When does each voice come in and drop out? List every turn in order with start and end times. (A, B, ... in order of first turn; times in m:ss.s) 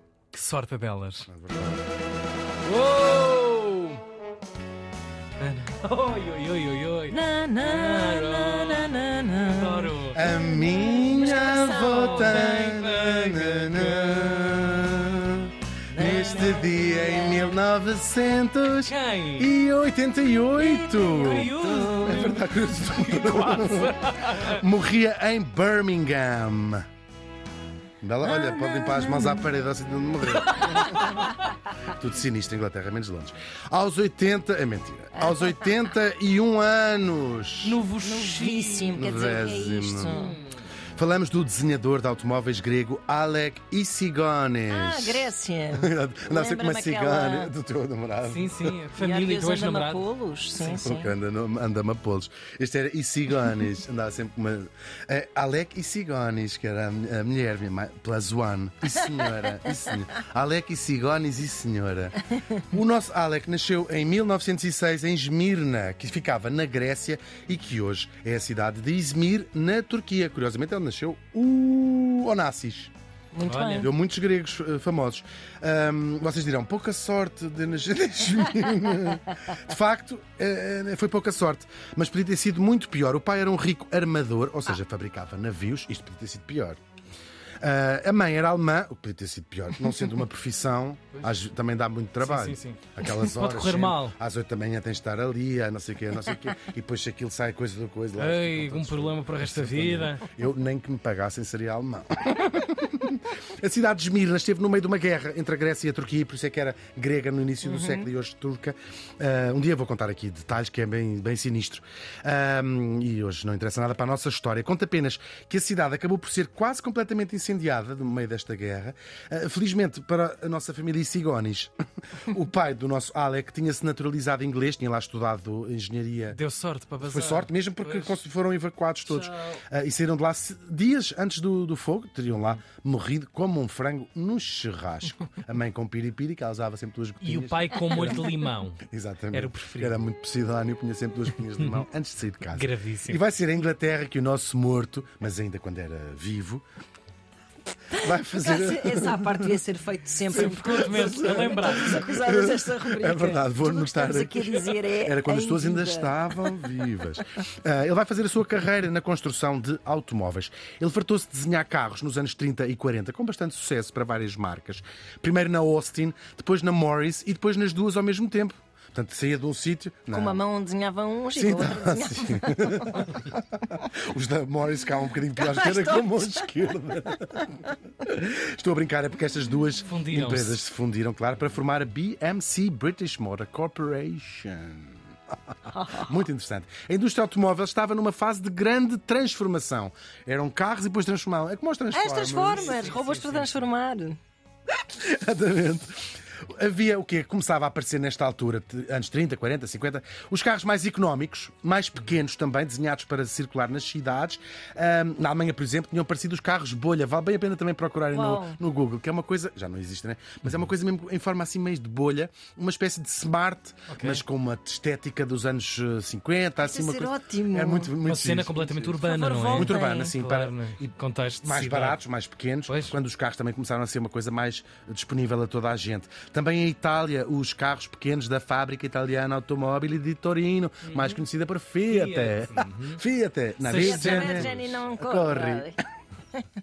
0:00.3-0:01.3 A
0:01.3-0:01.8 B
0:02.6-0:04.0 A
0:05.4-0:09.0 A
0:07.1-0:12.6 C
0:09.5-0:10.2 A
0:10.1-0:26.8 B
0:11.1-0:14.7 A
0:15.9-0:17.6 C
0:18.8-0:19.5 A
0:20.6-0:22.3 C
0:21.1-0:24.6 A
0:28.0-0:31.2 B
0:28.2-0:29.4 C
0:30.4-0:31.3 A
0:30.8-0:31.3 C
0:31.8-0:37.8 B
0:35.2-0:35.7 C
0:37.6-0:39.0 A
0:38.0-0:40.4 C
0:38.9-0:40.2 B
0:40.1-0:40.4 A
0:41.0-0:48.8 B
0:44.7-0:47.5 C
0:48.2-0:50.0 A
0:49.0-0:51.1 C
0:50.6-1:12.9 B
1:13.3-1:13.9 C
1:13.4-1:13.9 A
1:13.7-1:26.8 B
1:27.6-2:06.4 B
1:32.2-1:34.1 A
1:38.2-1:40.2 A
1:47.6-1:48.1 C
2:06.3-2:08.1 A
2:07.0-2:18.3 B
2:09.0-2:09.6 A
2:12.3-2:12.6 A
2:17.2-2:20.0 A
2:18.8-2:26.6 B
2:21.6-2:21.8 A
2:22.5-2:23.2 A
2:27.9-2:29.6 B
2:27.9-2:36.5 C
2:30.3-2:32.1 A
2:30.3-2:50.4 B
2:50.1-2:53.2 C
2:51.3-3:05.0 B
2:55.4-2:56.5 C
2:59.8-3:00.6 A
3:05.7-3:06.1 C
3:05.9-3:12.9 B
3:11.9-3:14.2 C
3:12.4-3:13.7 A
3:14.8-3:40.6 B
3:28.1-3:28.6 C
3:33.9-3:34.2 A
3:36.6-3:37.9 C
3:38.0-3:42.0 A
3:39.0-3:40.1 C
3:41.4-3:55.8 B
3:42.7-3:43.0 A
3:50.8-3:51.2 A
3:51.9-3:53.0 A
3:53.6-3:54.8 A
3:53.7-3:55.8 C